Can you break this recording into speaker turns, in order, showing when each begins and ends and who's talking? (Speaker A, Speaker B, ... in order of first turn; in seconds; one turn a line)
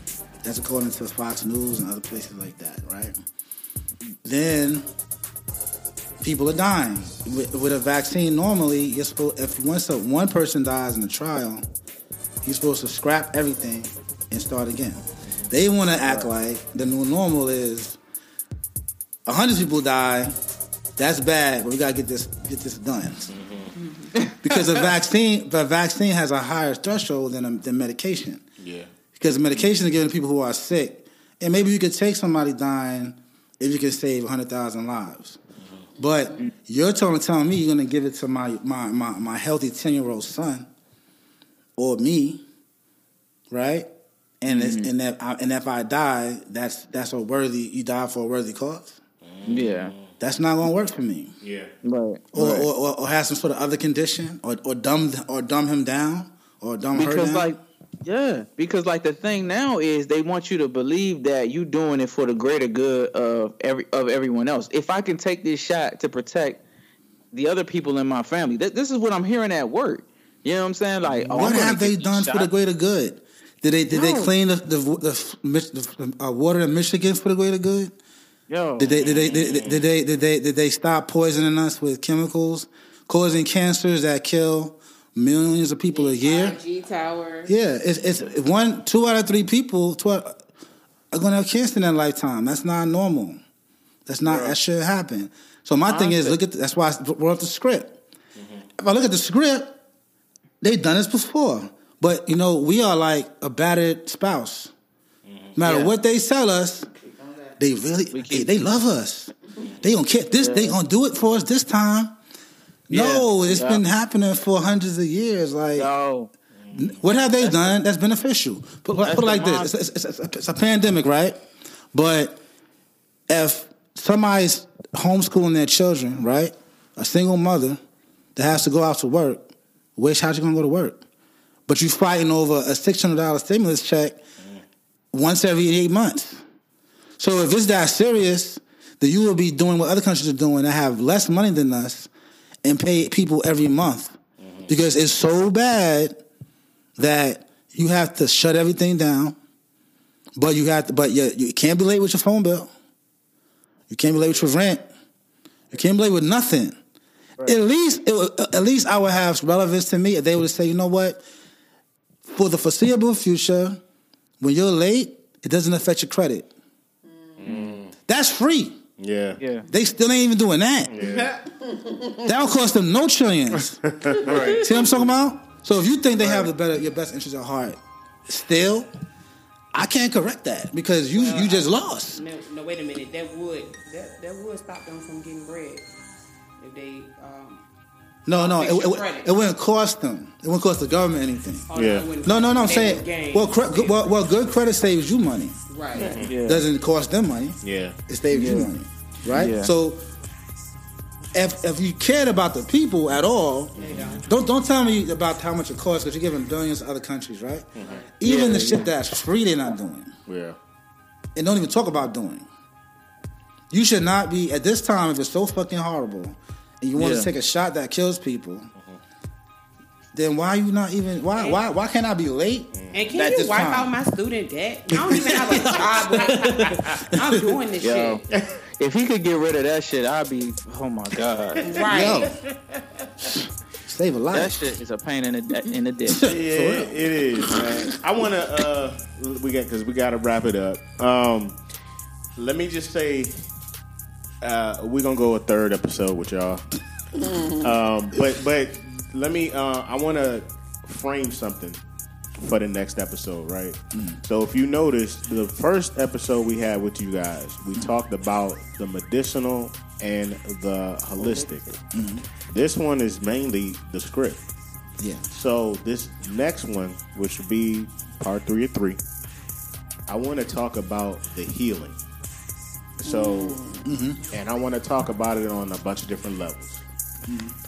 Speaker A: 0.4-3.1
Speaker A: 4.2-4.9
Speaker A: 6.2-11.6
Speaker A: 12.4-18.0
Speaker A: 19.2-20.4
Speaker A: 21.0-23.3
Speaker B: 23.3-23.8
Speaker C: 24.1-24.6
Speaker A: 24.4-28.4
Speaker B: 28.6-28.9
Speaker A: 29.1-35.4
Speaker A: 36.0-40.7
Speaker D: 36.0-36.3
Speaker A: 41.8-42.4
Speaker A: 43.5-43.9
Speaker A: 44.4-49.0
Speaker C: 44.5-44.9
Speaker B: 49.2-50.1
Speaker C: 49.5-49.9
Speaker A: 50.2-51.3
Speaker B: 51.4-51.7
Speaker C: 51.8-52.7
Speaker A: 52.3-57.5
Speaker C: 56.9-66.6
Speaker C: 67.3-72.5
Speaker A: 71.3-77.9
Speaker C: 73.9-74.3
Speaker C: 78.5-79.0
Speaker A: 78.8-86.6
Speaker B: 79.0-79.9
Speaker D: 85.9-87.5
Speaker A: 87.5-90.5
Speaker A: 91.1-93.4
Speaker A: 94.1-98.0
Speaker B: 94.2-94.5
Speaker C: 95.9-96.4
Speaker B: 98.4-98.6
Speaker A: 98.8-99.8
Speaker A: 100.6-104.7
Speaker B: 105.2-105.5
Speaker A: 105.5-106.9
Speaker C: 105.6-105.9
Speaker D: 106.9-107.6
Speaker A: 107.6-112.2
Speaker C: 108.1-108.6
Speaker C: 110.4-110.8
Speaker C: 112.9-113.8
Speaker A: 112.9-115.9
Speaker C: 115.8-116.3
Speaker B: 116.6-117.0
Speaker A: 116.7-121.4
Speaker C: 119.0-119.7
Speaker A: 121.9-122.4
Speaker A: 123.3-127.8
Speaker A: 128.3-131.0
Speaker A: 131.7-134.2
Speaker A: 135.1-136.4
Speaker A: 137.2-142.1
Speaker A: 142.6-144.2
Speaker B: 144.4-144.7
Speaker A: 144.7-146.2
Speaker A: 147.0-149.3
Speaker A: 150.3-152.7
Speaker A: 153.9-154.8
Speaker A: 155.7-156.8
Speaker A: 157.4-161.2
Speaker A: 162.2-163.8
Speaker A: 164.4-166.5
Speaker B: 167.4-167.9
Speaker A: 168.1-168.8
Speaker B: 169.0-169.4
Speaker C: 169.4-169.7
Speaker A: 169.7-170.9
Speaker B: 170.9-171.4
Speaker D: 171.0-172.3
Speaker A: 172.2-178.9
Speaker B: 173.7-174.7
Speaker C: 174.2-174.6
Speaker A: 179.7-182.2
Speaker E: 181.1-185.8
Speaker E: 186.6-187.6
Speaker A: 188.2-191.7
Speaker E: 188.3-189.3
Speaker E: 191.7-194.0
Speaker B: 191.7-192.1
Speaker A: 192.2-195.6
Speaker E: 195.7-196.2
Speaker B: 195.9-196.3
Speaker D: 195.9-196.3
Speaker C: 196.2-196.7
Speaker A: 196.4-200.0
Speaker B: 197.6-198.0
Speaker C: 198.3-198.7
Speaker C: 199.3-199.7
Speaker A: 201.3-210.1
Speaker B: 203.8-204.2
Speaker E: 203.8-204.2
Speaker B: 207.8-208.1
Speaker C: 208.2-208.9
Speaker B: 210.3-210.6
Speaker A: 211.3-212.5
Speaker A: 213.7-218.7
Speaker C: 216.9-217.3
Speaker A: 220.1-223.9
Speaker E: 221.3-221.6
Speaker B: 222.7-223.1
Speaker E: 222.9-228.2
Speaker A: 225.1-227.6
Speaker C: 227.8-228.2
Speaker B: 228.3-228.6
Speaker C: 228.8-231.7
Speaker B: 231.6-233.3
Speaker E: 231.6-232.3
Speaker A: 231.8-232.3
Speaker A: 233.9-234.7
Speaker C: 234.3-236.2
Speaker A: 236.1-237.9
Speaker B: 236.2-241.6
Speaker B: 242.3-243.4
Speaker B: 244.4-246.7
Speaker D: 247.1-247.7
Speaker B: 247.6-251.8
Speaker B: 252.4-261.7
Speaker A: 253.9-254.2
Speaker D: 261.2-261.8
Speaker A: 261.9-262.2
Speaker B: 262.5-264.4
Speaker A: 265.0-265.2
Speaker B: 265.3-269.0
Speaker B: 270.1-272.0
Speaker B: 273.0-273.6
Speaker D: 273.1-273.8
Speaker A: 273.8-274.2
Speaker B: 274.3-276.8
Speaker A: 277.3-277.6